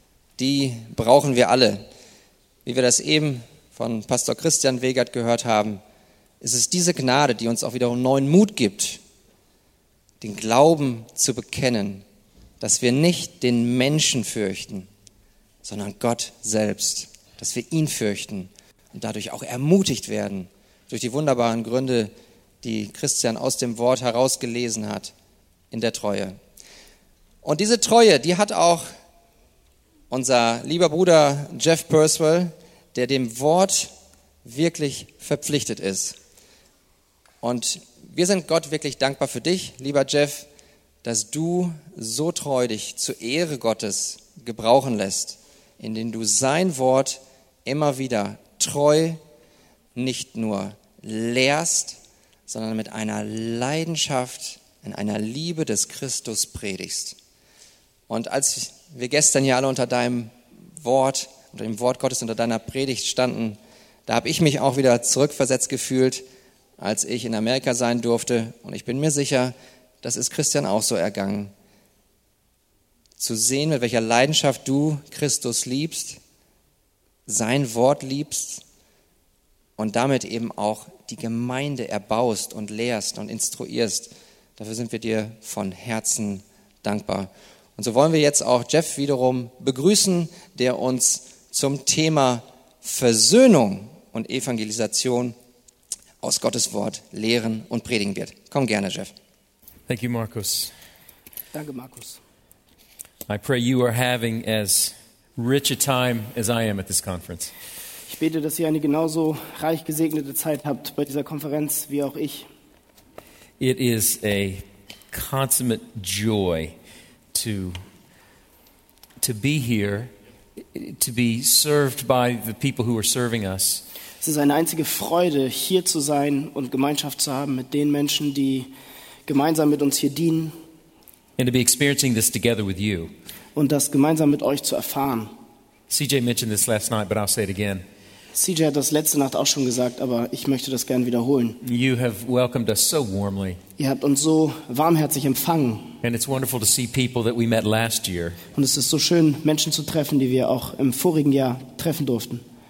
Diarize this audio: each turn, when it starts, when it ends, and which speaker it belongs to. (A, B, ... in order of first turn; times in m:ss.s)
0:00.4-0:01.8 A
0:02.6-0:05.8 A
0:06.4-0:09.0 A
0:10.2-0:12.0 A
0:12.6-0:14.9 A
0:15.6-0:22.1 A
0:22.6-0:25.1 A
0:25.7-0:26.4 A
0:27.4-0:28.8 A
0:30.1-0:33.9 A
0:34.4-0:36.2 A
0:37.4-0:40.4 A
0:41.0-0:49.2 A
0:49.9-0:57.2 A
0:58.1-1:06.2 A
1:06.8-1:11.5 A
1:13.2-1:16.2 A
1:17.3-1:18.6 A
1:19.8-1:35.3 A
1:36.2-1:39.1 A
1:39.9-1:40.7 B
1:41.5-1:42.2 C
1:43.3-1:47.5 B
1:48.1-1:52.5 C
1:53.6-1:56.7 B
1:57.3-1:57.8 B
1:59.2-2:00.1 B
2:00.7-2:03.8 B
2:04.2-2:08.7 C
2:09.3-2:10.5 C
2:11.4-2:13.1 B
2:13.5-2:15.3 C
2:15.9-2:17.8 B
2:18.3-2:21.6 C
2:21.6-2:23.6 B
2:23.8-2:26.0 C
2:26.0-2:28.4 B
2:28.5-2:32.4 C